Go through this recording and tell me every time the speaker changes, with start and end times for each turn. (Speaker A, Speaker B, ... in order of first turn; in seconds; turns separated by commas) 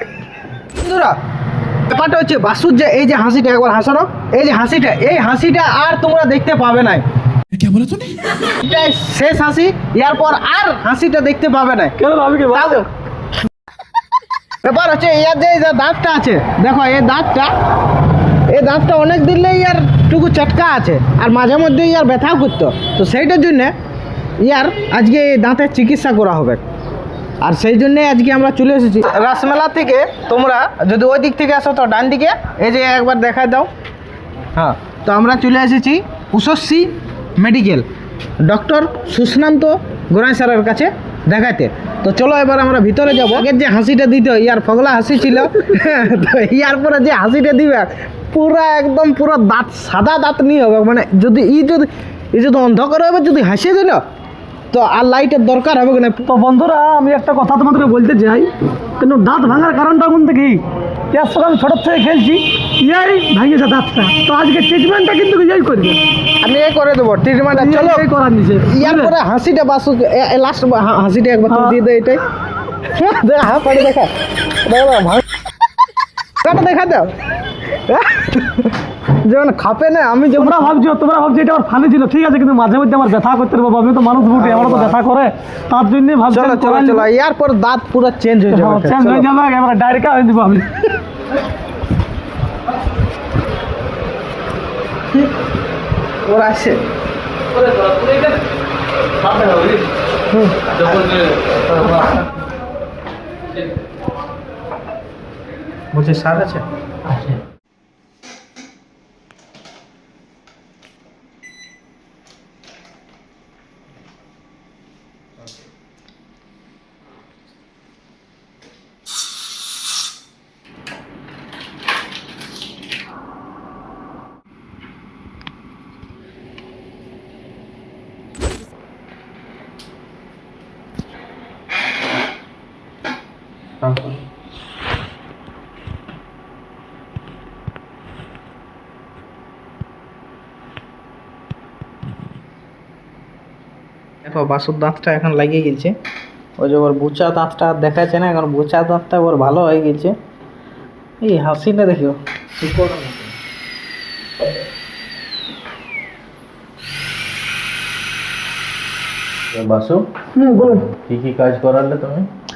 Speaker A: 0.8-1.1, Speaker A: 1.9-7.0, Speaker A: 8.6-11.9, Speaker B: 12.0-12.9, Speaker A: 12.5-12.8, Speaker A: 14.6-17.5, Speaker A: 18.5-23.7, Speaker A: 24.4-26.6, Speaker A: 27.4-33.7, Speaker A: 34.6-37.9, Speaker A: 38.4-54.0, Speaker A: 54.7-56.2, Speaker B: 56.2-66.0, Speaker A: 66.4-68.1, Speaker B: 67.5-69.2, Speaker A: 68.7-72.2, Speaker B: 71.5-71.8, Speaker A: 72.9-74.1, Speaker A: 74.8-75.2, Speaker A: 76.4-77.1, Speaker A: 77.9-80.7, Speaker B: 80.3-87.1, Speaker A: 84.3-85.0, Speaker A: 86.3-89.3, Speaker B: 88.5-90.8, Speaker A: 96.3-96.8, Speaker A: 99.3-99.8, Speaker B: 100.3-100.7, Speaker A: 100.8-102.2, Speaker A: 105.9-106.6, Speaker A: 133.8-134.2, Speaker A: 144.2-145.9, Speaker A: 146.6-150.1, Speaker A: 151.2-153.3, Speaker C: 159.5-160.0, Speaker B: 160.3-160.9, Speaker C: 160.6-162.3